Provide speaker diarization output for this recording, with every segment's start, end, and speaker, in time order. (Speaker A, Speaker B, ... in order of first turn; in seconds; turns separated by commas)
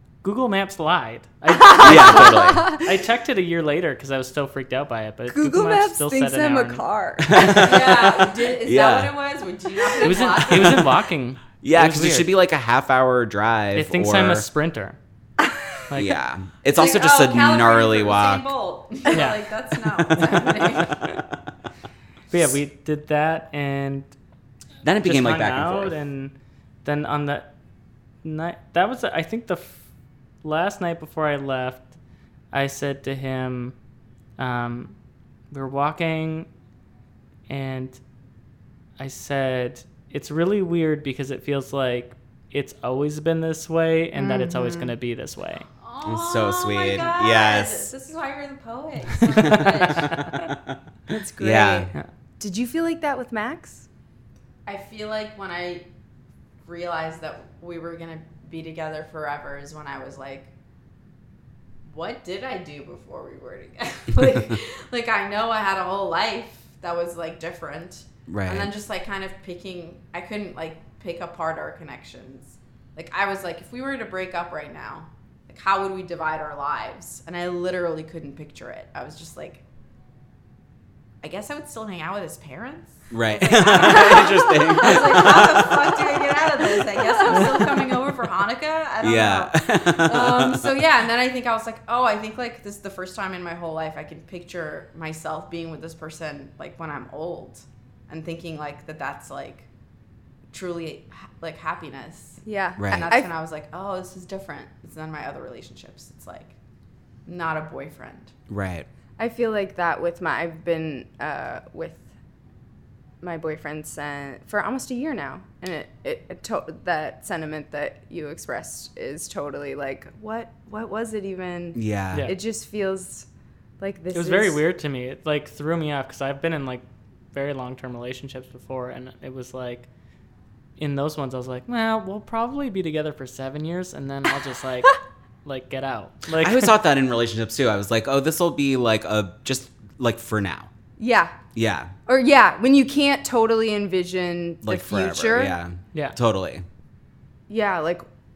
Speaker A: 0.2-6.8, Speaker B: 1.5-2.9, Speaker C: 1.8-2.7, Speaker B: 5.3-7.7, Speaker C: 7.2-9.1, Speaker D: 7.5-10.9, Speaker A: 10.0-12.3, Speaker C: 10.5-10.8, Speaker C: 11.6-14.5, Speaker A: 13.7-15.0, Speaker A: 15.9-16.2, Speaker C: 15.9-18.5, Speaker D: 16.7-21.0, Speaker A: 19.1-19.4, Speaker C: 20.2-21.2, Speaker A: 22.3-24.1, Speaker C: 24.8-25.9, Speaker A: 25.0-26.3, Speaker A: 26.9-27.5, Speaker A: 28.2-29.8, Speaker A: 30.4-32.0, Speaker A: 32.5-33.8, Speaker A: 34.4-35.0, Speaker A: 35.5-36.5, Speaker A: 37.5-38.0, Speaker A: 39.0-45.7, Speaker B: 44.1-45.0, Speaker D: 45.8-50.2, Speaker C: 46.0-47.9, Speaker C: 49.3-50.8, Speaker A: 49.4-50.3, Speaker B: 51.1-53.9, Speaker C: 51.4-51.9, Speaker D: 54.7-55.9, Speaker D: 56.6-60.5, Speaker D: 61.9-79.6, Speaker C: 68.3-68.7, Speaker D: 81.2-99.7, Speaker C: 83.1-86.1, Speaker B: 83.8-85.0, Speaker C: 87.3-87.7, Speaker C: 89.0-90.8, Speaker D: 100.5-106.5, Speaker B: 102.5-103.3, Speaker C: 102.8-103.1, Speaker D: 107.3-108.3, Speaker C: 108.5-108.9, Speaker B: 109.2-112.0, Speaker B: 113.2-123.3, Speaker C: 121.8-122.3, Speaker B: 123.8-124.6, Speaker A: 124.1-129.9, Speaker A: 130.8-136.7, Speaker C: 136.3-140.7, Speaker B: 141.0-141.3, Speaker C: 141.6-141.9, Speaker B: 142.1-145.5, Speaker C: 144.6-146.7, Speaker B: 147.5-148.1